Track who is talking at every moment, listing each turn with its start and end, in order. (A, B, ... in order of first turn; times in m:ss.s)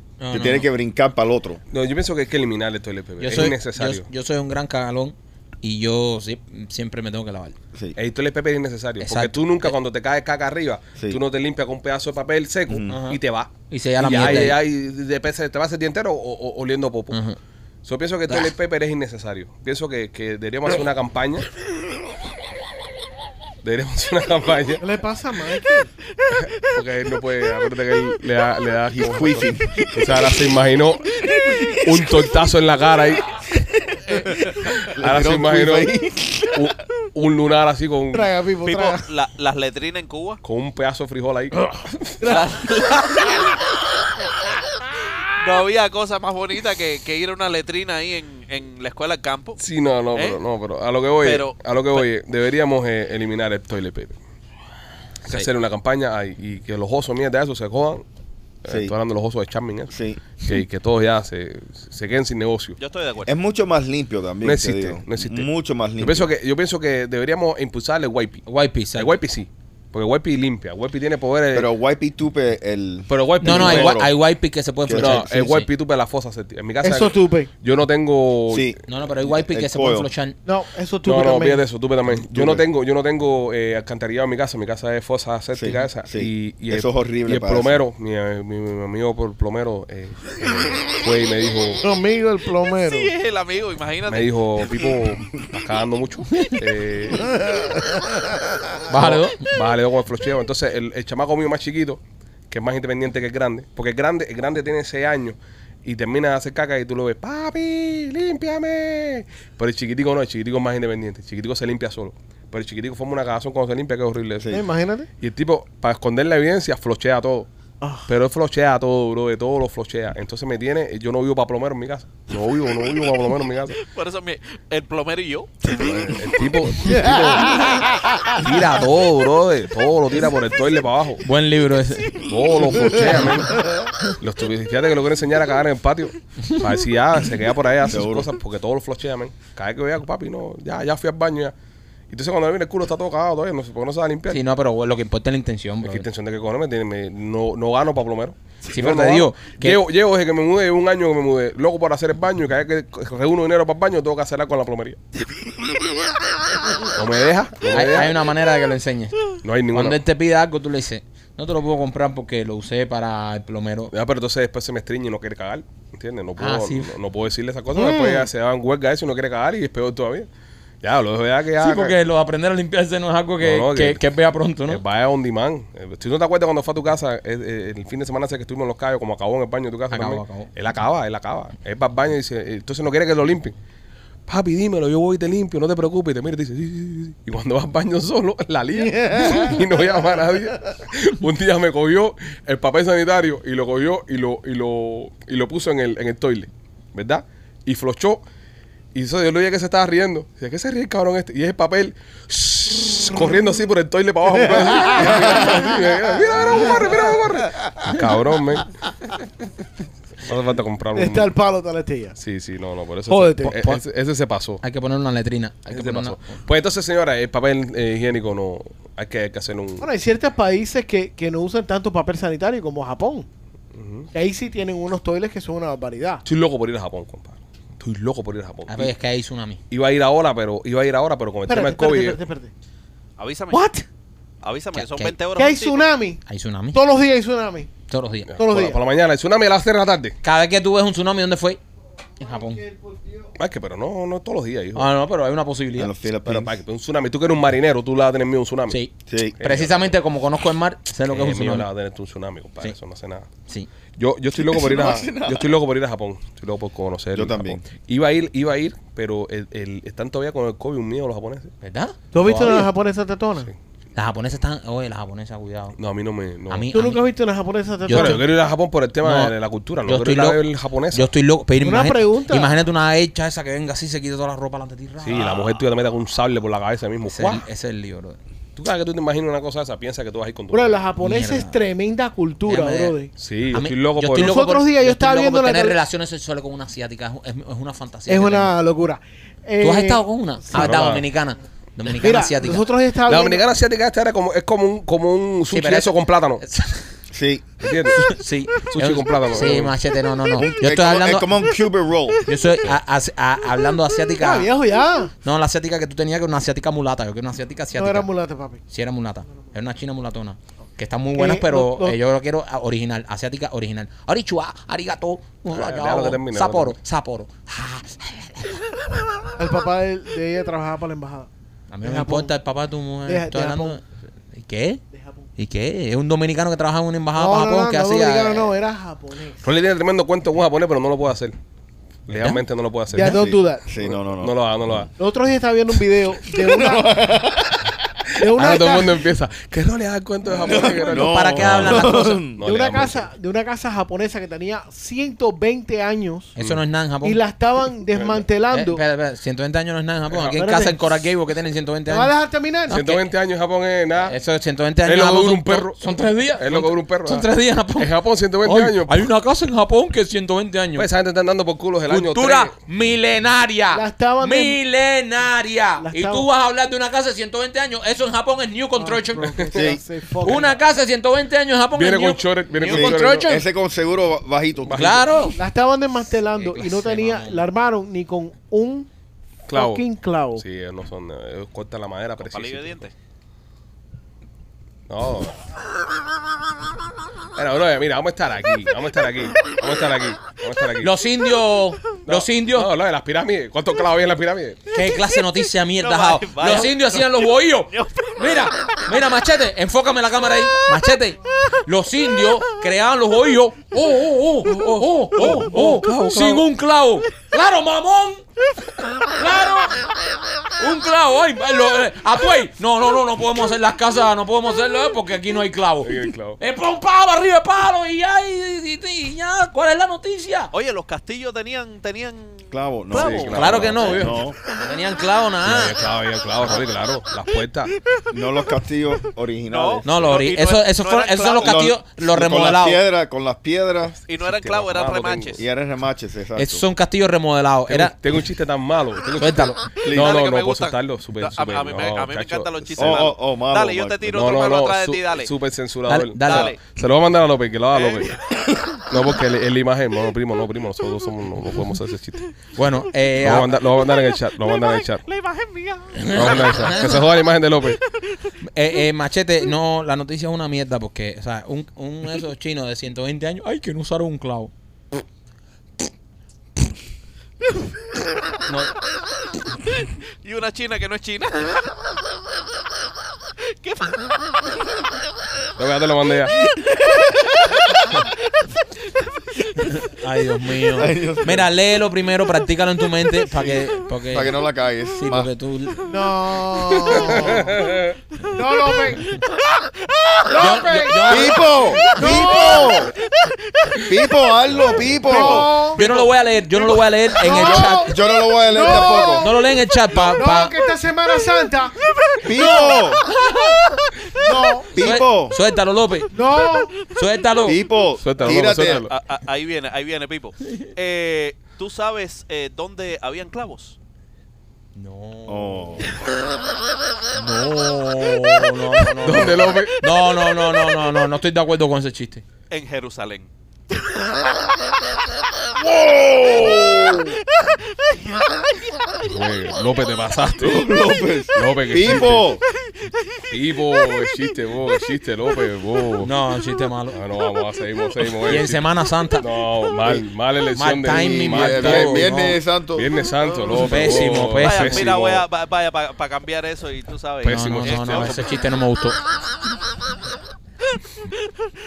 0:00.2-0:00.7 A
0:00.3-0:01.6 B
0:01.7-0:04.0 C
0:03.2-0:07.6 A
0:08.0-0:17.2 C
0:09.0-0:09.8 A
0:12.7-0:13.0 B
0:12.9-0:14.6 A
0:17.1-0:17.4 A
0:17.8-0:21.5 C
0:23.6-0:24.8 C
0:24.8-0:25.9 D
0:26.3-0:33.4 C
0:28.9-0:30.2 B
0:31.4-0:31.9 B
0:34.1-0:34.4 D
0:34.8-0:35.9 C
0:34.9-0:36.7 B
0:36.5-0:38.3 C
0:38.1-0:39.0 D
0:38.6-0:40.4 E
0:40.4-0:42.2 C
0:42.2-0:42.5 D
0:42.2-0:43.3 E
0:45.4-0:49.6 E
0:49.6-0:54.2 C
0:50.1-0:50.4 E
0:51.2-0:52.0 E
0:55.2-0:55.5 A
0:55.2-0:58.0 C
0:58.6-1:02.8 C
0:58.7-0:58.9 B
0:59.9-1:00.2 B
1:02.8-1:03.3 E
1:03.2-1:06.3 B
1:04.4-1:11.7 C
1:08.5-1:09.1 A
1:11.5-1:14.1 B
1:13.1-1:14.1 C
1:13.4-1:15.7 A
1:14.8-1:15.4 B
1:14.9-1:18.8 C
1:16.8-1:17.5 D
1:18.5-1:20.1 B
1:18.9-1:20.4 A
1:20.4-1:21.6 D
1:21.0-1:31.8 C
1:22.1-1:22.6 B
1:25.5-1:27.8 B
1:31.8-1:33.1 D
1:32.8-1:34.9 E
1:34.1-1:37.4 C
1:38.9-1:39.5 A
1:38.9-1:54.6 C
1:54.4-1:54.6 B
1:54.5-1:55.1 D
1:55.2-1:57.5 C
1:57.8-1:58.0 D
1:58.0-2:03.8 C
2:03.7-2:06.2 E
2:05.7-2:07.6 C
2:06.8-2:07.8 D
2:08.4-2:11.2 C
2:08.4-2:08.7 A
2:11.2-2:12.3 A
2:12.2-2:21.5 C
2:17.8-2:18.3 B
2:22.1-2:24.4 C
2:24.3-2:26.1 A
2:25.8-2:35.0 C
2:28.7-2:29.8 A
2:36.9-2:38.2 C
2:37.7-2:39.2 A
2:39.4-2:40.0 C
2:39.7-2:43.9 A
2:43.9-2:50.3 C
2:46.4-2:46.9 A
2:47.7-2:48.3 D
2:50.8-2:52.0 C
2:51.6-2:54.8 A
2:53.4-2:54.0 C
2:54.7-3:03.6 C
2:59.9-3:00.5 A
3:04.3-3:18.2 C
3:08.8-3:09.6 D
3:18.9-3:28.7 C
3:24.4-3:25.9 D
3:26.5-3:27.1 D
3:30.2-3:31.3 C
3:30.9-3:32.2 D
3:32.2-3:34.6 C
3:33.1-3:33.5 D
3:33.4-3:33.8 A
3:34.6-3:36.4 A
3:35.7-3:39.9 C
3:39.8-3:43.2 D
3:43.7-3:44.1 C
3:44.1-3:46.2 D
3:46.2-3:48.9 C
3:48.7-3:49.6 A
3:49.7-3:52.2 C
3:51.5-3:52.5 D
3:53.2-3:53.6 E
3:53.5-3:53.9 D
3:54.4-3:55.9 E
3:54.7-3:55.1 A
3:55.4-3:56.2 D
3:56.2-3:56.8 A
3:56.7-3:57.7 D
3:57.9-3:58.3 A
3:58.3-4:00.2 C
3:58.4-3:58.8 D
4:00.2-4:01.6 A
4:02.2-4:02.6 A
4:02.7-4:03.0 D
4:03.4-4:04.9 C
4:04.7-4:05.9 A
4:05.8-4:06.6 B
4:06.2-4:08.8 C
4:08.7-4:11.7 A
4:09.1-4:09.4 B
4:09.4-4:09.9 C
4:11.1-4:13.3 C
4:14.0-4:21.5 C
4:14.3-4:15.6 B
4:17.1-4:17.6 B
4:21.6-4:22.7 A
4:22.1-4:23.5 D
4:24.0-4:25.8 A
4:25.8-4:26.7 C
4:26.5-4:27.0 A
4:26.7-4:28.2 D
4:27.8-4:28.2 A
4:27.9-4:31.1 C
4:29.0-4:29.3 A
4:29.8-4:30.4 A
4:30.9-4:35.6 A
4:31.6-4:32.5 D
4:35.0-4:37.4 C
4:37.0-4:38.2 A
4:38.6-4:40.8 C
4:40.5-4:43.1 D
4:41.0-4:41.6 A
4:42.4-4:43.0 A
4:43.2-4:44.4 C
4:43.5-4:48.5 A
4:44.1-4:45.8 D
4:48.1-4:50.7 D
4:49.6-4:52.6 A
4:50.5-4:51.0 C
4:52.0-4:53.4 D
4:53.0-4:56.4 C
4:55.5-4:57.0 A
4:57.1-4:57.4 B
4:57.6-4:59.7 C
4:57.9-5:01.3 A
5:00.4-5:02.2 B
5:02.2-5:04.5 A
5:04.2-5:05.1 D
5:05.2-5:08.1 A
5:07.7-5:08.6 D
5:08.7-5:18.7 A
5:11.1-5:12.0 D
5:15.5-5:16.7 C
5:19.4-5:21.3 D
5:21.7-5:24.8 A
5:21.8-5:22.3 D
5:23.0-5:23.8 D
5:24.9-5:25.3 D
5:25.4-5:28.5 A
5:27.2-5:29.4 D
5:29.4-5:31.3 C
5:32.1-5:34.9 C
5:32.1-5:32.4 A
5:32.9-5:33.7 D
5:33.0-5:34.9 B
5:35.0-5:37.2 D
5:36.4-5:37.7 B
5:38.2-5:39.0 D
5:38.2-5:43.1 C
5:40.3-5:42.4 B
5:40.9-5:42.2 A
5:42.4-5:46.3 D
5:46.4-5:47.2 A
5:47.0-5:48.8 D
5:47.9-5:48.2 C
5:48.5-5:52.1 A
5:50.1-5:50.4 C
5:50.3-5:50.8 D
5:51.9-5:52.8 D
5:52.7-5:53.1 A
5:52.7-5:54.2 C
5:54.0-5:57.9 A
5:54.8-5:57.2 C
5:57.8-5:59.1 C
5:58.4-6:00.9 A
6:00.8-6:02.5 C
6:01.9-6:09.5 A
6:03.7-6:04.6 D
6:05.8-6:06.3 D
6:08.8-6:10.6 D
6:09.5-6:09.8 B
6:10.2-6:13.4 A
6:11.7-6:13.4 C
6:12.7-6:15.0 B
6:14.7-6:15.0 C
6:14.7-6:15.4 A
6:15.3-6:18.9 D
6:16.3-6:17.4 A
6:19.5-6:22.9 C
6:19.5-6:20.4 D
6:22.2-6:22.9 E
6:24.9-6:25.4 C
6:27.3-6:30.9 C
6:30.8-6:32.7 A
6:32.1-6:34.7 C
6:34.7-6:48.2 A
6:35.8-6:38.5 E
6:44.4-6:46.4 C
6:49.0-6:49.8 A
6:50.6-7:00.5 A
6:55.8-6:56.4 C
7:00.5-7:03.8 E
7:02.5-7:04.4 B
7:02.9-7:04.0 C
7:03.3-7:05.8 A
7:05.4-7:07.7 C
7:08.1-7:10.1 B
7:09.5-7:11.6 E
7:09.8-7:12.8 A
7:11.4-7:14.0 B
7:13.8-7:15.4 C
7:14.1-7:15.4 E
7:15.4-7:16.6 B
7:16.4-7:17.9 A
7:17.7-7:23.1 C
7:19.2-7:19.6 A
7:19.8-7:20.2 B
7:19.9-7:25.3 E
7:22.8-7:24.3 B
7:24.1-7:28.2 C
7:25.9-7:26.5 A
7:26.2-7:26.6 E
7:27.7-7:28.4 E
7:28.8-7:32.3 C
7:32.5-7:33.6 A
7:33.2-7:35.0 C
7:33.6-7:37.0 E
7:35.9-7:37.0 A
7:36.1-7:37.8 C
7:37.8-7:38.3 E
7:38.4-7:44.5 A
7:48.4-7:48.7 A
7:49.8-7:51.7 E
7:53.5-7:54.5 E
7:55.6-7:56.3 C
7:57.0-7:58.1 E
7:59.6-8:04.4 A
8:00.8-8:01.4 B
8:04.1-8:05.3 B
8:05.0-8:05.9 A
8:05.9-8:07.6 D
8:07.1-8:07.9 C
8:08.2-8:09.2 D
8:10.2-8:12.9 D
8:10.4-8:11.9 A
8:11.0-8:12.9 B
8:12.6-8:13.8 E
8:13.9-8:15.5 B
8:14.5-8:15.1 C
8:15.0-8:16.1 D
8:15.1-8:18.0 A
8:17.1-8:21.8 D
8:17.4-8:19.3 B
8:19.1-8:20.5 A
8:22.2-8:23.0 B
8:22.3-8:23.0 D
8:24.2-8:24.7 D
8:24.7-8:25.4 B
8:24.8-8:26.1 A
8:26.1-8:26.8 D
8:26.8-8:27.6 A
8:27.4-8:28.9 B
8:28.0-8:28.9 C
8:28.7-8:33.8 E
8:34.7-8:35.9 A
8:35.3-8:35.9 B
8:37.1-8:42.2 A
8:39.0-8:39.7 C
8:42.5-8:43.3 E
8:45.6-8:47.2 B
8:47.4-8:48.2 E
8:49.0-8:50.7 C
8:50.4-8:52.4 B
8:51.3-8:52.3 C
8:53.3-8:56.1 C
8:56.0-8:57.0 A
8:56.9-8:58.6 C
8:58.2-8:59.3 A
8:59.2-9:02.1 C
9:00.5-9:02.4 A
9:00.9-9:03.7 B
9:02.7-9:05.2 C
9:03.6-9:04.9 A
9:04.4-9:08.6 E
9:07.2-9:08.3 C
9:07.2-9:09.0 A